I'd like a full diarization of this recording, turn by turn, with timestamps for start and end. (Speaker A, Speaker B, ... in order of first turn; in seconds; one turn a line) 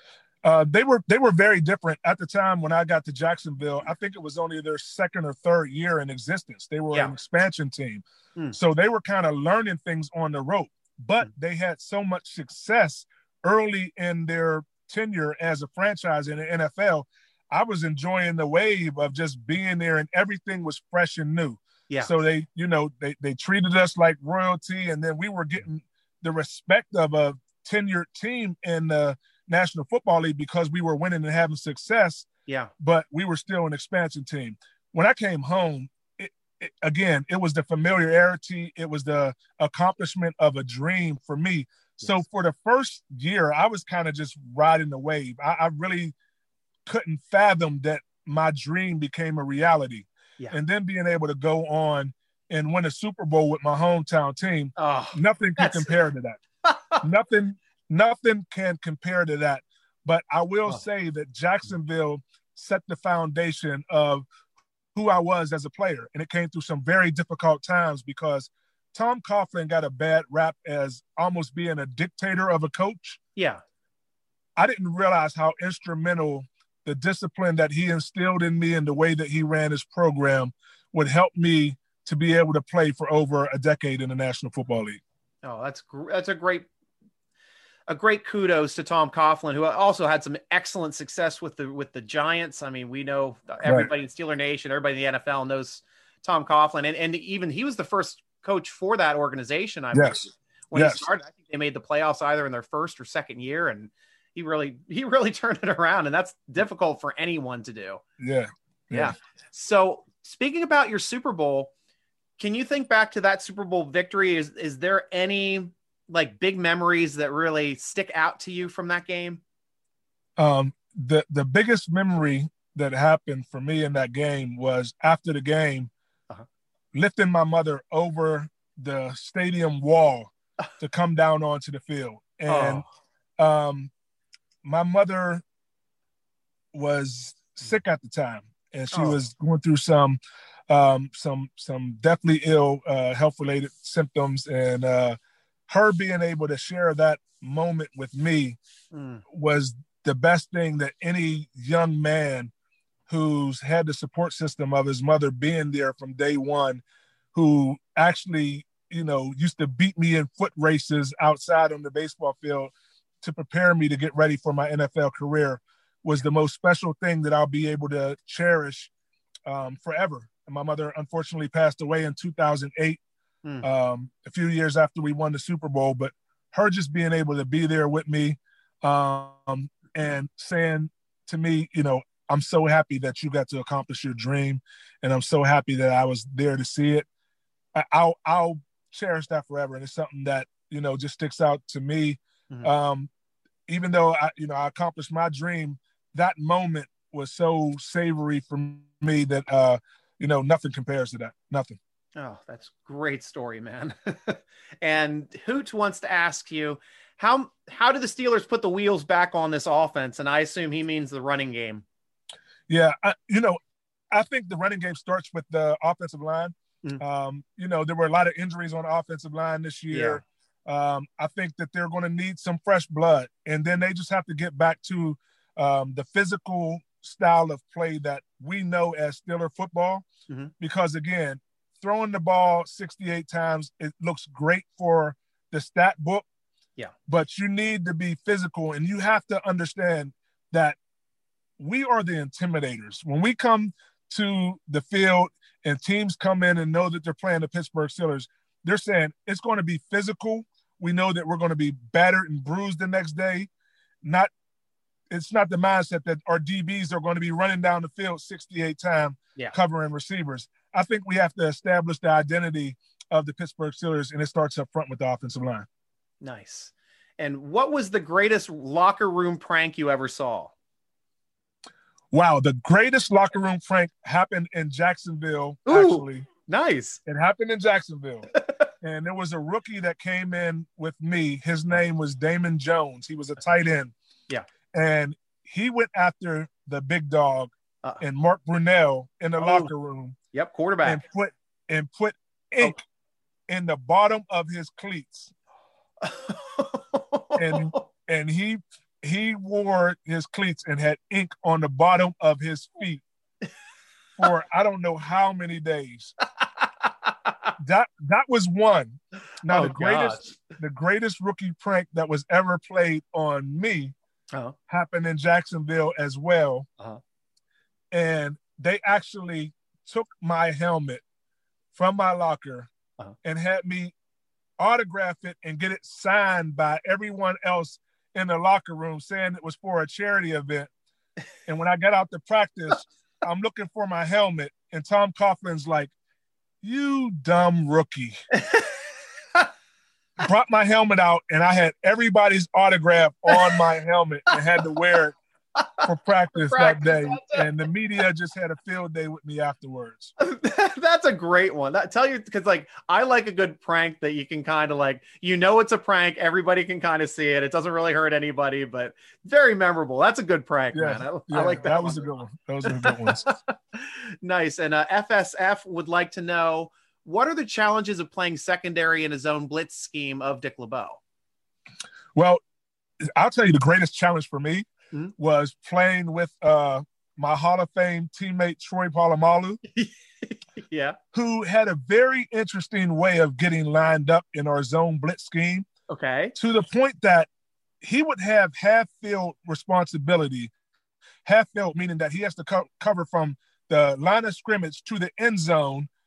Speaker A: 0.4-46.1
Speaker A: 46.9-56.4
Speaker B: 54.8-56.0
Speaker B: 56.6-57.0
Speaker A: 57.0-64.3
Speaker A: 64.9-73.2
Speaker B: 73.3-73.6
Speaker A: 74.6-85.0
Speaker B: 85.4-86.7
Speaker B: 87.9-108.0
Speaker A: 93.6-93.9
Speaker A: 99.9-101.0
Speaker A: 108.2-109.1
Speaker B: 108.9-111.7
Speaker B: 112.4-119.4
Speaker A: 120.4-125.9
Speaker A: 126.9-132.8
Speaker B: 132.5-132.8
Speaker A: 133.4-133.9
Speaker A: 134.6-135.4
Speaker A: 136.7-148.6
Speaker B: 138.9-139.2
Speaker B: 148.9-149.2
Speaker A: 149.3-152.5
Speaker A: 153.1-156.8
Speaker A: 157.3-168.9
Speaker A: 169.5-173.0
Speaker A: 173.6-187.1
Speaker A: 187.7-193.1
Speaker A: 193.7-201.8
Speaker B: 202.2-211.8
Speaker A: 212.7-213.6
Speaker A: 214.1-230.0
Speaker B: 219.9-220.2
Speaker A: 230.6-236.2
Speaker A: 237.1-240.8
Speaker A: 241.6-253.5
Speaker A: 254.0-254.3
Speaker A: 255.1-265.7
Speaker B: 266.2-270.5
Speaker A: 272.1-276.3
Speaker B: 275.7-277.0
Speaker A: 277.1-278.3
Speaker A: 278.8-283.9
Speaker A: 284.7-290.2
Speaker B: 289.4-289.7
Speaker B: 290.3-291.0
Speaker A: 290.8-292.8
Speaker A: 293.5-295.3
Speaker B: 296.0-297.8
Speaker A: 297.4-303.0
Speaker A: 304.2-306.1
Speaker B: 306.6-307.5
Speaker A: 307.6-313.9
Speaker B: 309.5-310.4
Speaker A: 314.7-316.7
Speaker A: 317.9-321.0
Speaker A: 321.7-322.7
Speaker A: 323.2-323.9
Speaker A: 324.6-330.7
Speaker A: 331.4-335.9
Speaker A: 336.6-338.2
Speaker B: 338.3-339.5
Speaker A: 340.2-345.1
Speaker B: 343.3-343.6
Speaker B: 345.6-347.5
Speaker A: 345.8-350.1
Speaker B: 350.2-362.1
Speaker A: 360.7-363.3
Speaker B: 362.6-371.0
Speaker A: 372.1-372.4
Speaker A: 373.1-374.7
Speaker A: 375.2-379.6
Speaker B: 379.7-381.0
Speaker A: 381.1-385.7
Speaker B: 385.9-386.4
Speaker A: 386.4-387.3
Speaker A: 387.8-390.5
Speaker A: 391.2-395.9